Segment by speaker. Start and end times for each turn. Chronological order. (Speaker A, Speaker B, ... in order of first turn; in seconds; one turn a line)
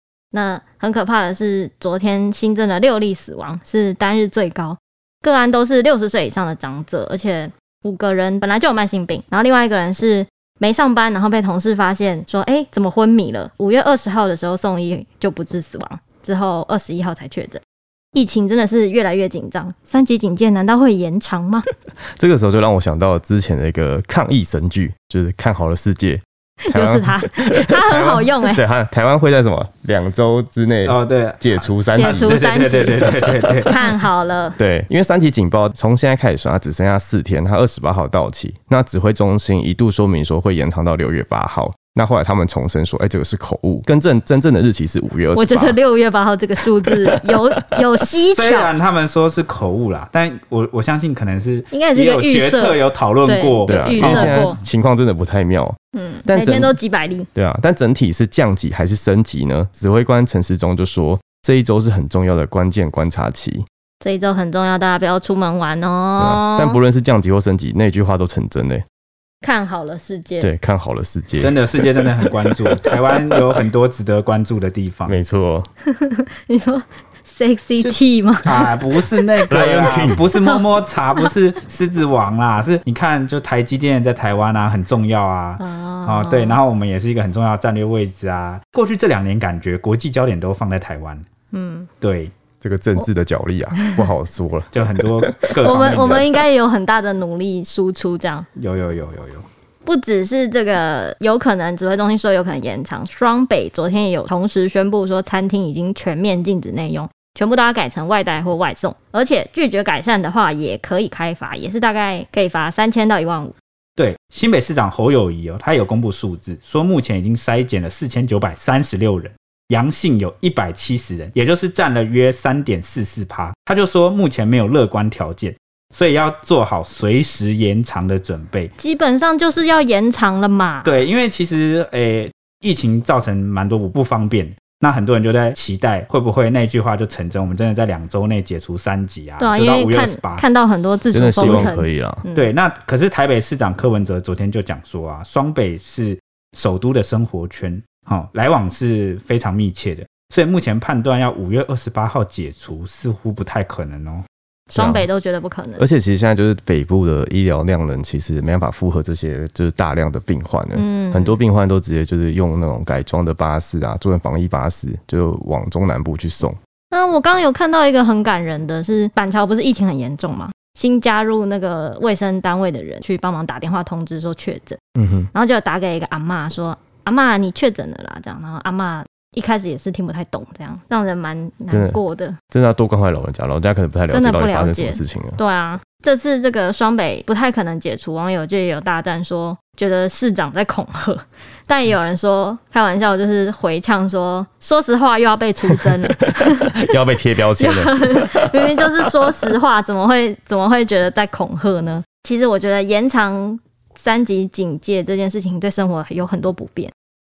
Speaker A: 0.3-17.6
Speaker A: 18.1-21.6
Speaker B: 22.2-32.4
Speaker A: 26.7-28.6
Speaker C: 30.8-33.7
Speaker A: 31.9-34.6
Speaker B: 34.6-45.8
Speaker A: 45.3-48.7
Speaker C: 48.3-54.6
Speaker A: 51.7-54.6
Speaker B: 53.7-55.8
Speaker A: 55.9-57.3
Speaker B: 56.3-56.8
Speaker B: 57.4-63.6
Speaker A: 64.0-66.8
Speaker B: 66.2-68.8
Speaker A: 69.4-70.5
Speaker B: 70.4-72.3
Speaker C: 71.4-75.2
Speaker B: 72.9-73.4
Speaker B: 75.0-75.7
Speaker A: 75.8-78.8
Speaker C: 77.8-91.2
Speaker B: 79.5-80.2
Speaker A: 80.3-80.6
Speaker A: 85.6-86.6
Speaker A: 91.5-91.9
Speaker C: 92.0-92.3
Speaker B: 92.6-95.5
Speaker A: 93.8-94.1
Speaker C: 94.7-96.4
Speaker A: 95.6-98.5
Speaker C: 98.5-99.4
Speaker A: 99.8-113.5
Speaker C: 114.0-128.7
Speaker A: 128.8-131.0
Speaker C: 130.8-140.4
Speaker A: 139.4-142.5
Speaker B: 141.1-142.2
Speaker C: 141.3-141.7
Speaker C: 142.3-154.2
Speaker A: 154.7-155.8
Speaker B: 154.8-155.1
Speaker B: 155.8-166.6
Speaker A: 160.7-161.4
Speaker A: 166.9-174.8
Speaker B: 175.0-175.3
Speaker A: 175.3-182.4
Speaker B: 181.7-182.0
Speaker B: 182.5-185.4
Speaker A: 184.1-196.8
Speaker B: 196.5-199.1
Speaker A: 197.6-206.9